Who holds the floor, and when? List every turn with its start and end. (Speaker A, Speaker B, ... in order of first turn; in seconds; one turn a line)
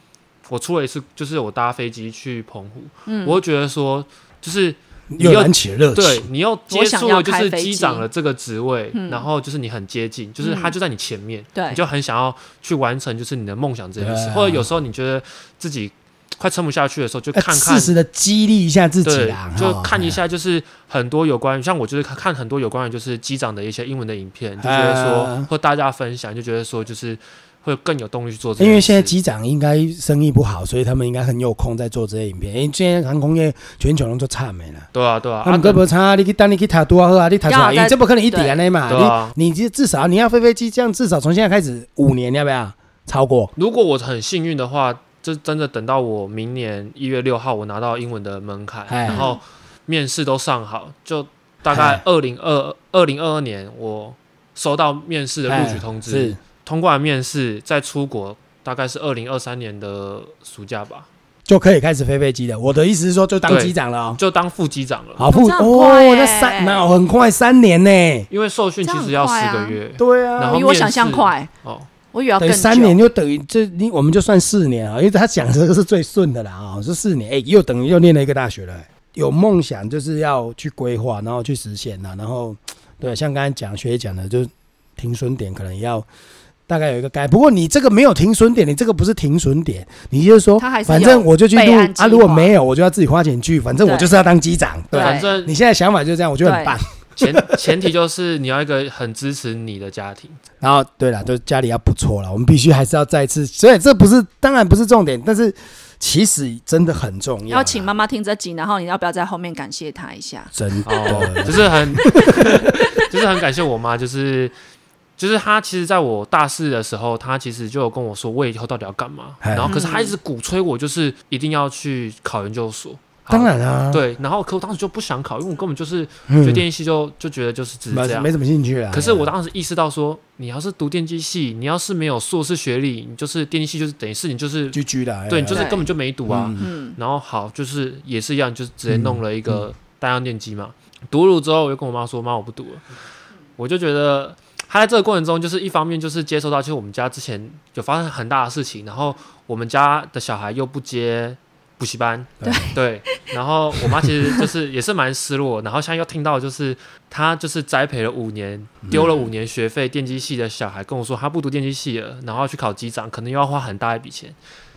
Speaker A: 0.5-17.9
Speaker B: 3.1-3.4
Speaker C: 5.1-6.3
Speaker B: 6.7-8.0
Speaker B: 8.9-9.2
Speaker B: 10.4-10.7
Speaker B: 11.5-11.8
Speaker C: 14.0-14.7
Speaker C: 17.3-20.2
Speaker A: 19.0-29.1
Speaker C: 24.6-25.5
Speaker C: 28.6-34.9
Speaker A: 34.9-35.8
Speaker C: 35.4-43.5
Speaker B: 37.5-38.6
Speaker A: 38.9-39.3
Speaker A: 43.5-61.1
Speaker C: 48.9-49.2
Speaker B: 49.1-49.4
Speaker C: 51.7-52.0
Speaker C: 55.5-56.4
Speaker C: 61.5-64.2
Speaker A: 63.5-65.2
Speaker C: 65.2-68.3
Speaker B: 65.3-66.8
Speaker A: 68.3-71.9
Speaker B: 68.8-69.8
Speaker C: 70.0-70.6
Speaker B: 70.5-71.5
Speaker B: 72.1-73.0
Speaker C: 72.4-86.0
Speaker C: 86.7-97.9
Speaker B: 90.6-92.5
Speaker B: 93.8-94.1
Speaker B: 94.9-95.3
Speaker A: 94.9-95.5
Speaker B: 96.4-96.8
Speaker A: 97.2-100.4
Speaker C: 100.6-107.9
Speaker B: 107.5-111.1
Speaker C: 110.5-112.9
Speaker A: 110.8-114.5
Speaker A: 115.2-128.3
Speaker C: 119.4-119.7
Speaker B: 119.6-120.1
Speaker C: 123.3-124.0
Speaker C: 126.3-126.6
Speaker C: 127.9-129.3
Speaker A: 128.9-142.8
Speaker C: 134.7-135.7
Speaker B: 135.5-135.9
Speaker C: 136.3-136.7
Speaker B: 136.6-137.0
Speaker C: 138.9-139.7
Speaker A: 143.6-164.3
Speaker C: 152.4-152.7
Speaker B: 152.4-153.2
Speaker B: 154.0-154.4
Speaker B: 158.9-159.3